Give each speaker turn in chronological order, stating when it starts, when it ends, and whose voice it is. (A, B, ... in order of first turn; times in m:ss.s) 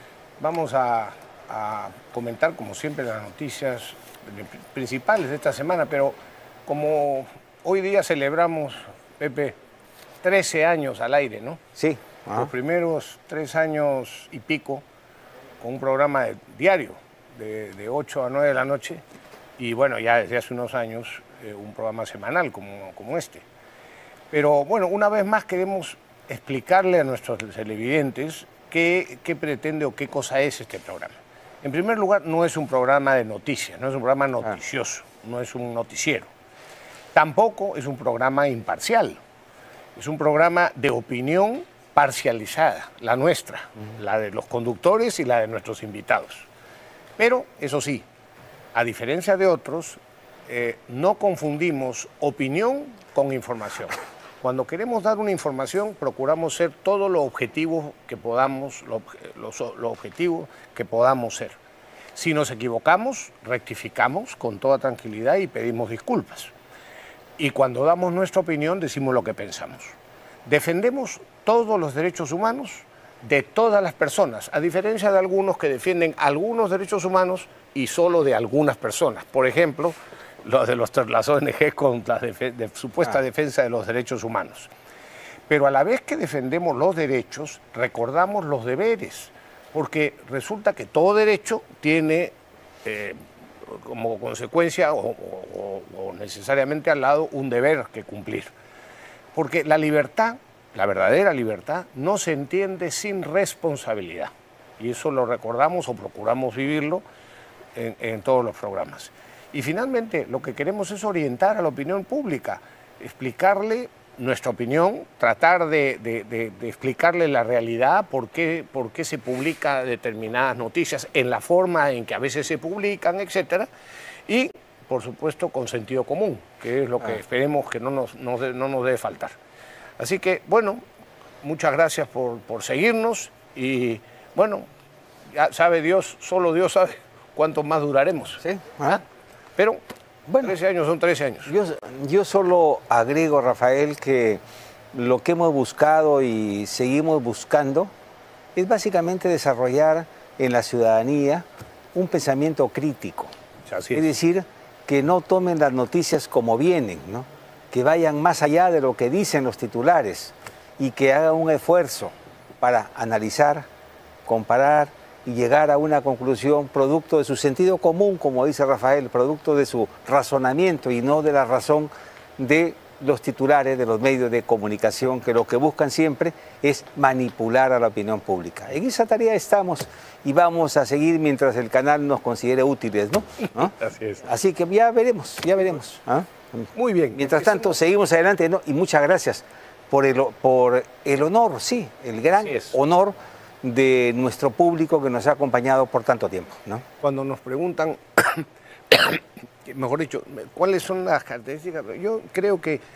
0:00.4-0:09.6 A
0:10.2-0:11.6 A
0:11.8-0:12.5 B
0:12.3-0:14.8 A
0:15.6-0:19.0 A
0:19.6-0:23.4 A
0:24.3-0:36.3 A
0:37.1-0:39.2 A
0:40.0-0:46.4 A
0:47.2-0:48.0 A
0:48.8-1:01.6 A
1:02.2-1:06.5 A
1:07.4-1:09.9 A
1:10.4-1:24.7 A
1:25.5-1:38.5 A
1:39.3-1:47.0 A
1:47.7-2:03.7 A
2:04.3-2:09.4 A
2:10.0-2:10.8 A
2:11.4-2:14.7 A
2:15.3-2:19.0 A
2:18.4-2:19.0 B
2:20.3-2:20.5 B
2:20.4-2:21.5 A
2:21.5-2:24.4 B
2:24.9-2:27.9 B
2:28.6-2:33.3 B
2:33.7-2:34.1 A
2:33.9-2:43.7 B
2:44.3-3:16.8 B
3:03.8-3:04.2 A
3:06.8-3:07.7 A
3:12.4-3:12.8 A
3:17.0-3:22.8 A